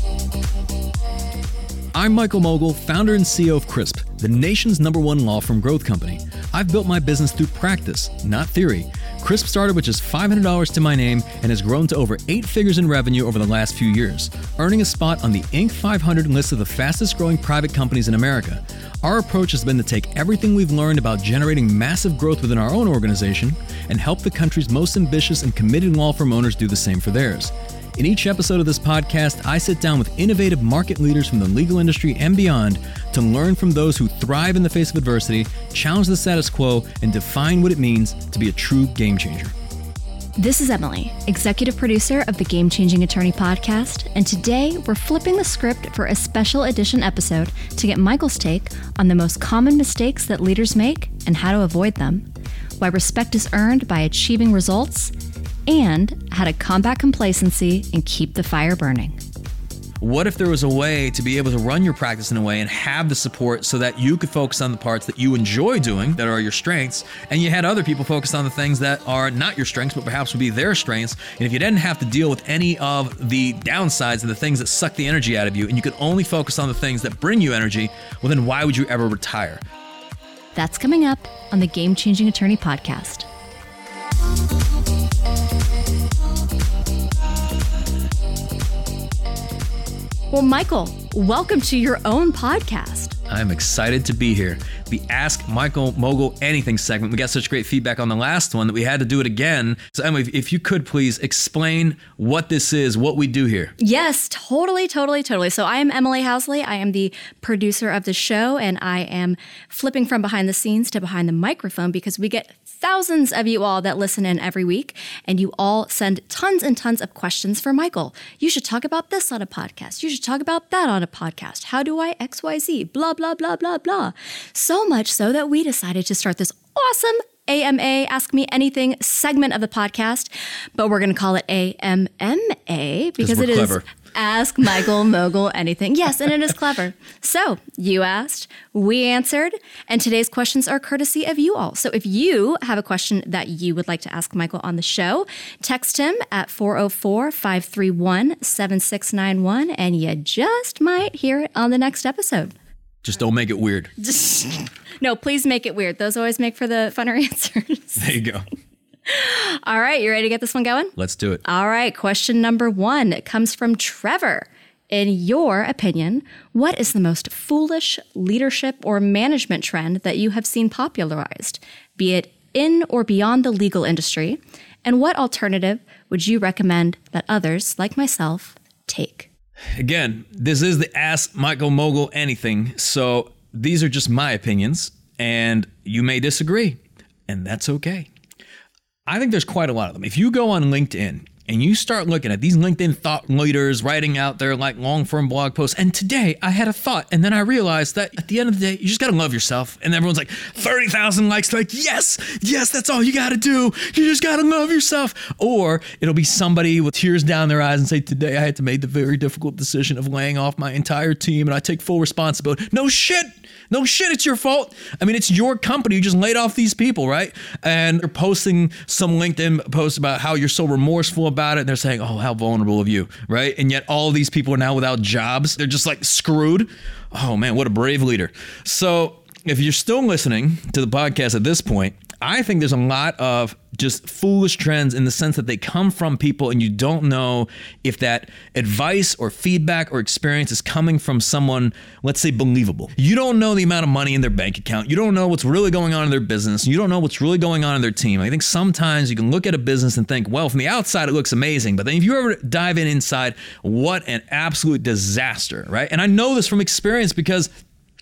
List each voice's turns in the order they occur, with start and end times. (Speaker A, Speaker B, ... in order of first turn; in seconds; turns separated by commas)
Speaker A: 1.9-39.5, Speaker B: 40.4-52.3, Speaker B: 52.8-55.1, Speaker B: 55.7-59.2, Speaker A: 60.0-79.6, Speaker B: 80.5-83.3, Speaker B: 90.3-93.2, Speaker A: 93.3-103.7, Speaker B: 103.8-152.5, Speaker A: 133.2-133.8, Speaker A: 153.0-153.9, Speaker B: 154.0-158.0, Speaker A: 158.0-158.4, Speaker B: 159.1-179.3, Speaker A: 161.0-161.4, Speaker A: 179.8-188.1, Speaker A: 189.1-257.5